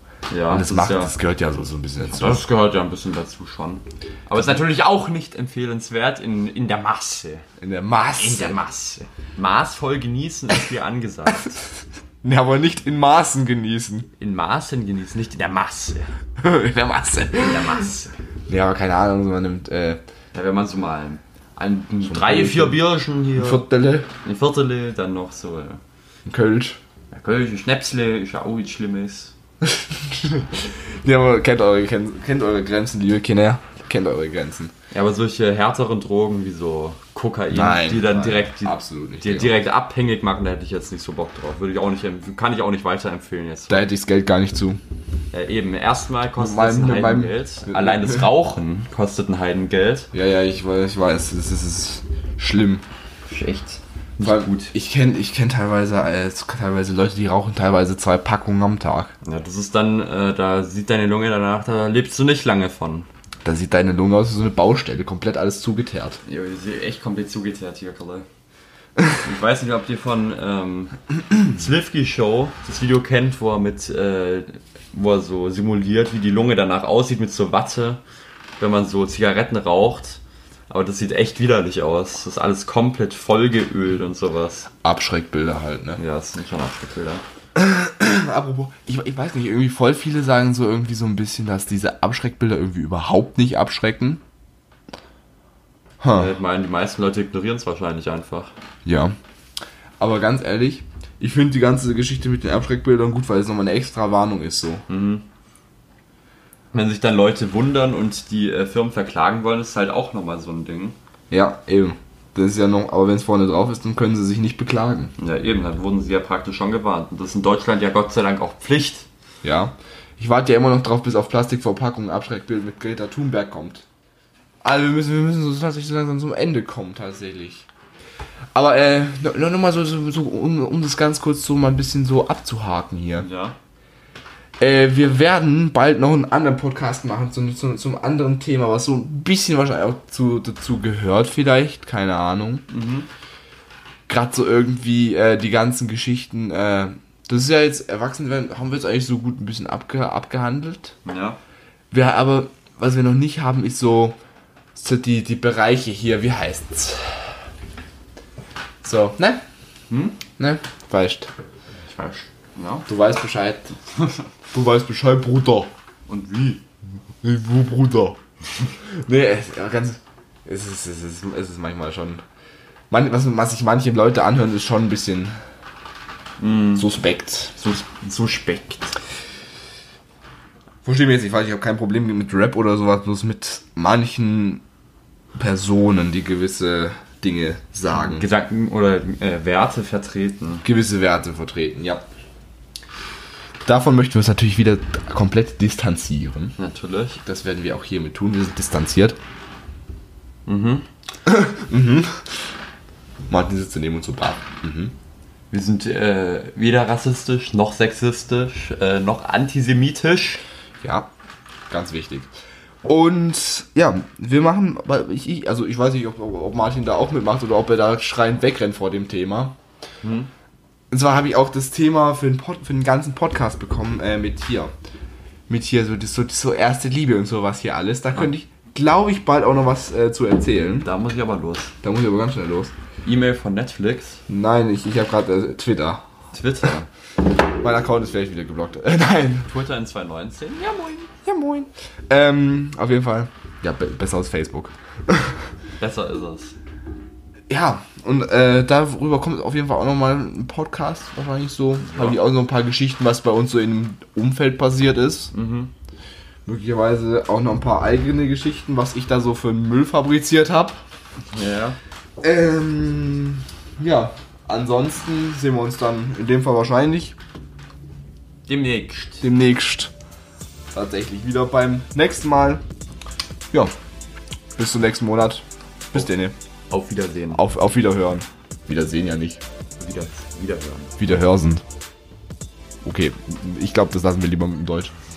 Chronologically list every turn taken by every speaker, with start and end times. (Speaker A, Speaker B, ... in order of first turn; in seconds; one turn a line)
Speaker A: 0.3-1.1
Speaker B: 0.5-2.4
Speaker A: 2.0-7.4
Speaker B: 7.6-8.6
Speaker A: 8.2-11.7
Speaker B: 12.2-14.1
Speaker A: 14.2-16.1
Speaker B: 16.4-17.9
Speaker A: 17.4-18.2
Speaker B: 18.5-20.0
Speaker A: 20.3-23.6
Speaker B: 22.0-22.8
Speaker B: 23.3-24.1
Speaker A: 24.2-25.8
Speaker B: 26.2-26.8
Speaker A: 27.1-29.3
Speaker B: 29.6-34.7
Speaker A: 34.9-43.9
Speaker B: 37.5-39.5
Speaker B: 43.7-44.8
Speaker A: 45.3-50.1
Speaker B: 46.4-48.3
Speaker B: 50.1-52.8
Speaker A: 53.3-54.7
Speaker B: 54.2-59.1
Speaker A: 59.2-63.1
Speaker B: 63.4-66.2
Speaker A: 66.2-68.2
Speaker A: 69.1-78.0
Speaker A: 78.6-84.7
Speaker B: 84.8-86.0
Speaker A: 86.0-87.2
Speaker B: 87.5-94.2
Speaker B: 96.0-96.3
Speaker A: 96.1-98.5
Speaker B: 98.8-99.2
Speaker B: 100.0-104.8
Speaker A: 104.9-105.2
Speaker A: 106.7-111.0
Speaker B: 111.3-115.1
Speaker A: 115.2-119.1
Speaker B: 119.4-123.8
Speaker B: 124.6-127.7
Speaker B: 128.5-133.3
Speaker A: 133.2-133.6
Speaker B: 134.6-142.7
Speaker A: 142.7-143.1
Speaker B: 144.1-150.9
Speaker A: 151.0-151.4
Speaker B: 151.9-154.2
Speaker B: 154.7-157.3
Speaker B: 158.8-159.4
Speaker A: 159.9-160.2
Speaker B: 160.4-161.3
Speaker A: 161.8-162.9
Speaker B: 162.9-163.7
Speaker A: 163.9-164.2
Speaker B: 164.5-165.7
Speaker A: 166.1-166.6
Speaker B: 167.2-168.2
Speaker B: 168.8-172.2
Speaker B: 172.9-175.3
Speaker A: 176.4-176.8
Speaker B: 176.8-177.5
Speaker A: 177.6-178.9
Speaker B: 180.8-184.6
Speaker B: 185.3-188.2
Speaker A: 187.9-190.6
Speaker B: 190.6-192.0
Speaker B: 193.6-196.6
Speaker A: 196.6-197.2
Speaker B: 197.2-199.2
Speaker A: 200.4-200.9
Speaker B: 201.2-202.5
Speaker B: 203.3-204.9
Speaker A: 205.5-210.4
Speaker B: 210.8-211.1
Speaker B: 211.7-212.3
Speaker B: 212.8-219.6
Speaker A: 220.0-220.3
Speaker B: 220.9-224.7
Speaker B: 225.5-230.9
Speaker A: 230.8-231.7
Speaker B: 231.8-232.7
Speaker A: 233.0-234.2
Speaker B: 234.3-236.0
Speaker A: 236.3-236.9
Speaker B: 237.6-239.5
Speaker A: 239.4-240.8
Speaker B: 240.6-245.4
Speaker A: 245.8-246.5
Speaker B: 247.5-255.3
Speaker A: 251.8-252.2
Speaker A: 255.3-255.7
Speaker B: 256.4-260.8
Speaker A: 261.3-261.8
Speaker B: 262.2-267.2
Speaker A: 268.5-269.3
Speaker B: 269.2-269.9
Speaker B: 270.7-272.6
Speaker B: 274.6-276.3
Speaker A: 276.7-277.4
Speaker B: 277.3-279.4
Speaker A: 279.8-281.0
Speaker B: 281.0-281.6
Speaker B: 282.8-284.9